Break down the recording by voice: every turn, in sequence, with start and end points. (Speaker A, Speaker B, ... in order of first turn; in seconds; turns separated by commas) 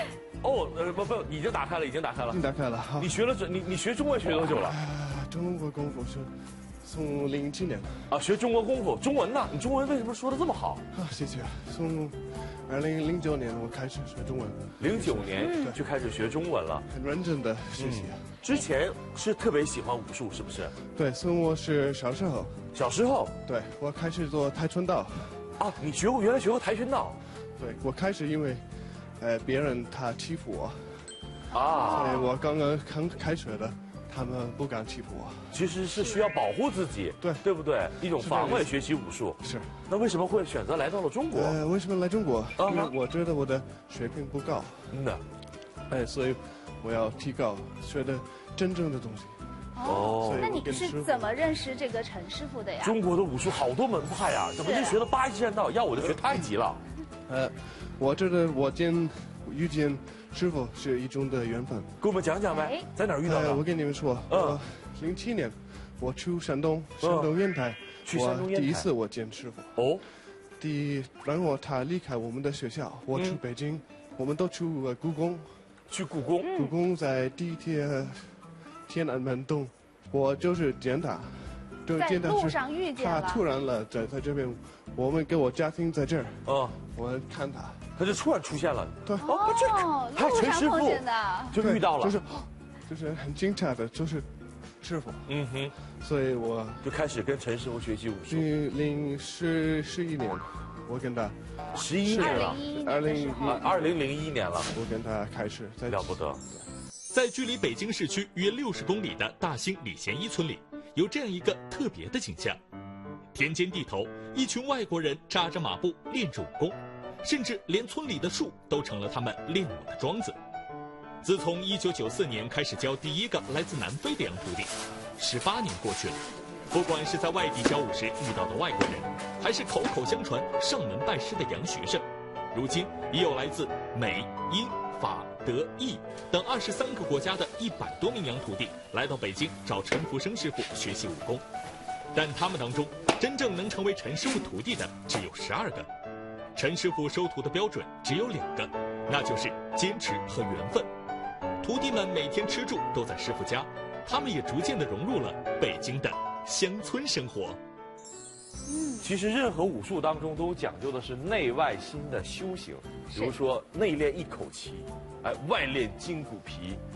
Speaker A: 0.4-2.4, Speaker B: 2.3-3.2, Speaker A: 3.0-4.8, Speaker B: 4.3-8.1, Speaker A: 8.1-10.9, Speaker B: 10.9-15.8, Speaker A: 14.8-16.9, Speaker C: 15.4-15.7, Speaker B: 16.9-18.3, Speaker A: 17.8-20.7, Speaker B: 20.8-22.7, Speaker A: 22.7-23.3, Speaker B: 23.4-25.5, Speaker A: 25.6-27.2, Speaker B: 27.6-28.6, Speaker B: 29.2-31.1, Speaker A: 31.5-32.3, Speaker C: 31.5-32.4, Speaker B: 31.8-35.7, Speaker A: 35.5-41.6, Speaker B: 37.2-37.5, Speaker B: 38.0-39.8, Speaker B: 41.3-45.0, Speaker A: 42.6-43.0, Speaker A: 44.9-45.2, Speaker B: 45.9-49.4, Speaker C: 49.8-53.0, Speaker A: 49.8-50.5, Speaker B: 49.9-51.5, Speaker A: 52.8-56.8, Speaker C: 54.6-55.0, Speaker B: 57.3-62.0, Speaker A: 62.0-63.6, Speaker C: 62.5-62.9, Speaker B: 63.2-70.0, Speaker A: 64.3-64.6, Speaker A: 67.0-67.3, Speaker A: 68.0-68.9, Speaker A: 69.8-70.0, Speaker B: 70.6-75.7, Speaker A: 73.1-73.4, Speaker A: 75.9-76.5, Speaker C: 76.4-76.8, Speaker B: 76.5-87.9, Speaker C: 82.0-83.5, Speaker A: 86.5-86.8, Speaker A: 88.0-92.2, Speaker B: 89.1-89.3, Speaker C: 89.2-91.6, Speaker B: 91.6-94.3, Speaker B: 94.8-96.9, Speaker A: 95.3-95.7, Speaker A: 96.8-98.5, Speaker B: 98.3-104.0, Speaker A: 101.7-102.6, Speaker C: 102.1-103.7, Speaker A: 103.4-104.7, Speaker B: 104.7-106.7, Speaker A: 105.9-106.4, Speaker D: 107.1-112.6, Speaker D: 113.3-120.4, Speaker D: 121.2-126.2, Speaker D: 126.7-141.4, Speaker D: 142.1-145.9, Speaker D: 146.6-150.9, Speaker D: 151.6-157.6, Speaker C: 158.7-159.1, Speaker A: 159.0-166.8, Speaker C: 163.1-163.4